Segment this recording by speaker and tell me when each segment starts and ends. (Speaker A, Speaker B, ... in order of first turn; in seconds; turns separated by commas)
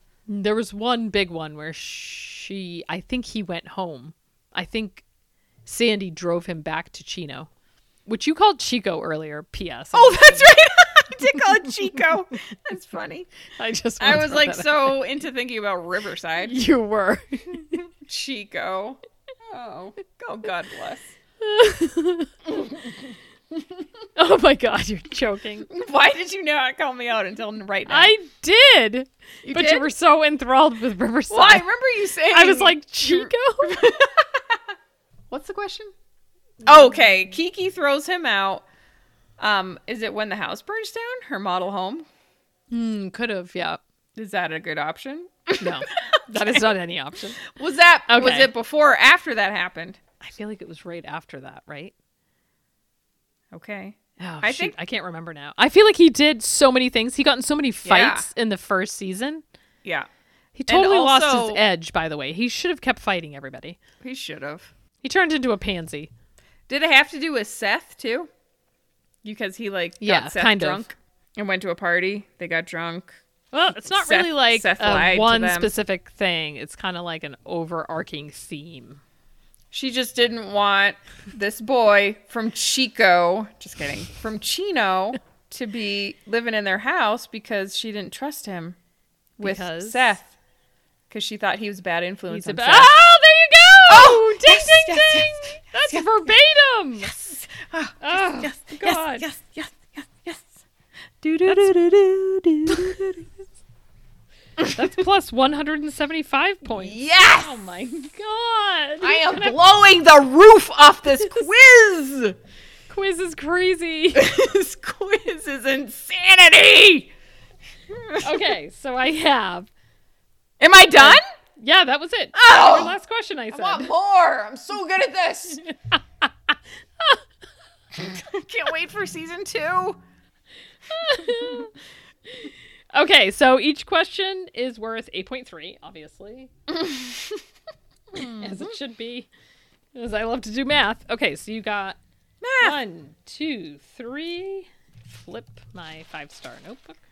Speaker A: 0.3-5.0, Speaker A: 5.7-7.5, Speaker A: 8.1-10.5, Speaker B: 9.9-13.3, Speaker A: 13.6-15.0, Speaker B: 14.0-16.6, Speaker A: 16.4-17.8, Speaker B: 17.9-21.1, Speaker A: 21.4-22.3, Speaker B: 22.6-22.9, Speaker A: 24.2-25.7, Speaker B: 25.7-28.1, Speaker A: 27.9-31.7, Speaker B: 29.4-29.9, Speaker B: 31.3-34.6, Speaker A: 32.3-33.8, Speaker B: 35.3-35.9, Speaker B: 36.6-38.6, Speaker B: 39.4-42.1, Speaker A: 42.7-43.8, Speaker B: 44.1-46.7, Speaker A: 45.6-47.4, Speaker B: 47.5-50.0, Speaker A: 48.1-48.5, Speaker A: 50.2-51.9, Speaker B: 53.5-54.8, Speaker A: 54.2-59.4, Speaker B: 57.8-58.3, Speaker A: 60.6-63.8, Speaker B: 60.7-61.6, Speaker B: 64.0-64.7, Speaker A: 65.0-66.1, Speaker B: 66.7-68.3, Speaker B: 69.2-73.2, Speaker A: 70.0-70.9, Speaker A: 73.5-79.0, Speaker B: 73.9-75.7, Speaker B: 79.7-88.8, Speaker B: 89.4-90.3, Speaker A: 89.4-90.2, Speaker B: 91.1-93.0, Speaker A: 92.3-97.1, Speaker B: 93.9-96.3, Speaker B: 97.0-100.5, Speaker A: 98.0-99.3, Speaker B: 101.2-103.3, Speaker A: 104.7-109.6, Speaker B: 106.7-107.6, Speaker B: 109.0-112.3, Speaker A: 112.9-114.3, Speaker B: 114.2-117.1, Speaker B: 117.9-118.5, Speaker A: 118.2-119.7, Speaker B: 120.6-121.2, Speaker A: 121.0-123.9, Speaker B: 122.3-123.0, Speaker B: 123.5-125.6, Speaker A: 125.8-127.2, Speaker B: 128.0-130.0, Speaker A: 130.9-131.7, Speaker B: 131.2-131.7, Speaker A: 132.3-136.5, Speaker B: 136.7-137.4, Speaker B: 138.1-138.8, Speaker A: 138.4-139.3, Speaker A: 139.9-142.0, Speaker B: 142.4-142.8, Speaker A: 142.6-147.0